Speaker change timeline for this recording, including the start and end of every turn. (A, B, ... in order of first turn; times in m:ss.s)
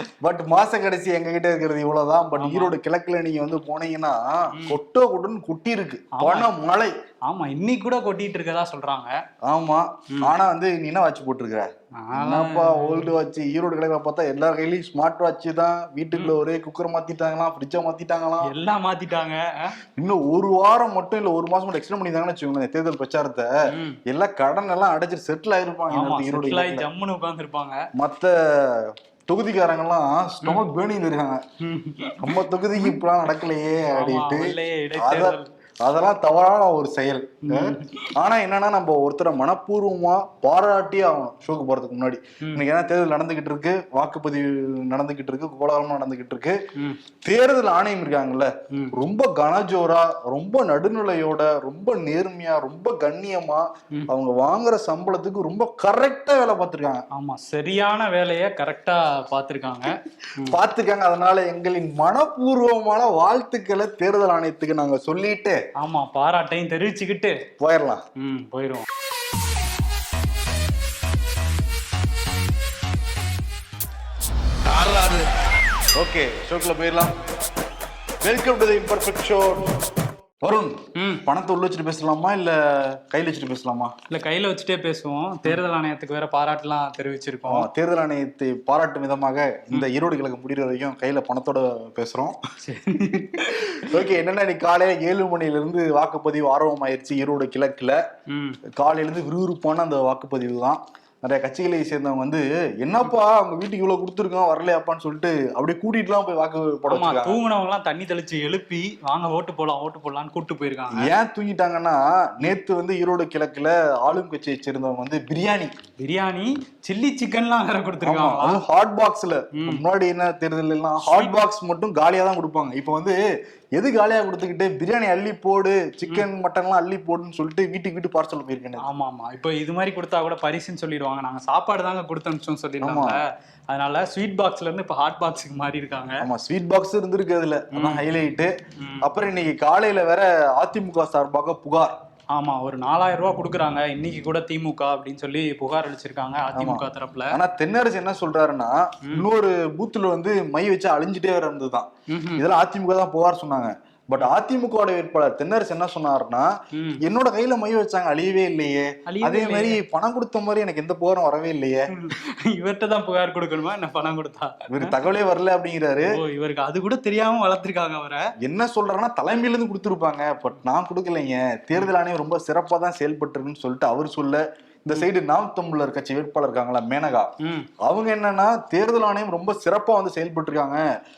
0:00.2-0:06.9 A
0:02.4-0:02.7 B
0:04.5-0:04.8 B
0:06.1-0:06.5 B
0:07.3-0:09.2 B
0:09.4-0:18.5 A
0:12.0-0:13.1 B
0:18.4-0:19.8 B
0:20.0-0:23.5 A
0:23.7-0:24.0 B
0:24.1-0:26.9 A
0:25.9-0:27.9 B
0:28.0-0:31.4 A
0:31.6-0:33.0 B
0:32.2-0:46.6 A
0:33.9-0:35.5 B
0:37.5-0:38.1 B
0:47.2-0:57.0 A
0:57.1-1:00.6 B
1:00.4-1:05.6 A
1:05.8-1:07.4 B
1:07.6-1:08.0 A
1:08.2-1:08.9 B
1:14.7-1:15.2 A
1:16.0-1:17.2 A
1:18.2-1:19.8 A
1:20.4-1:24.0 A
1:21.0-1:21.3 B
1:24.1-1:27.7 B
1:27.5-1:32.4 A
1:32.6-1:34.0 B
1:33.4-1:38.0 A
1:38.3-1:38.6 B
1:38.7-1:47.4 A
1:46.9-1:51.1 B
1:50.9-1:55.7 A
1:56.0-1:58.6 B
1:58.0-2:03.2 A
1:59.6-1:59.8 B
2:01.0-2:01.4 B
2:03.8-2:08.9 A
2:08.8-2:16.3 B
2:12.8-2:13.2 A
2:16.2-2:22.0 A
2:17.7-2:18.0 B
2:18.8-2:19.1 B
2:22.3-2:27.4 B
2:26.5-2:36.5 A
2:32.1-2:32.4 B
2:36.7-2:37.0 B
2:37.0-2:41.9 A
2:39.1-2:39.8 B
2:41.9-2:45.0 B
2:44.7-2:46.2 A
2:46.0-2:48.3 B
2:48.4-3:00.8 A
2:57.4-2:57.7 B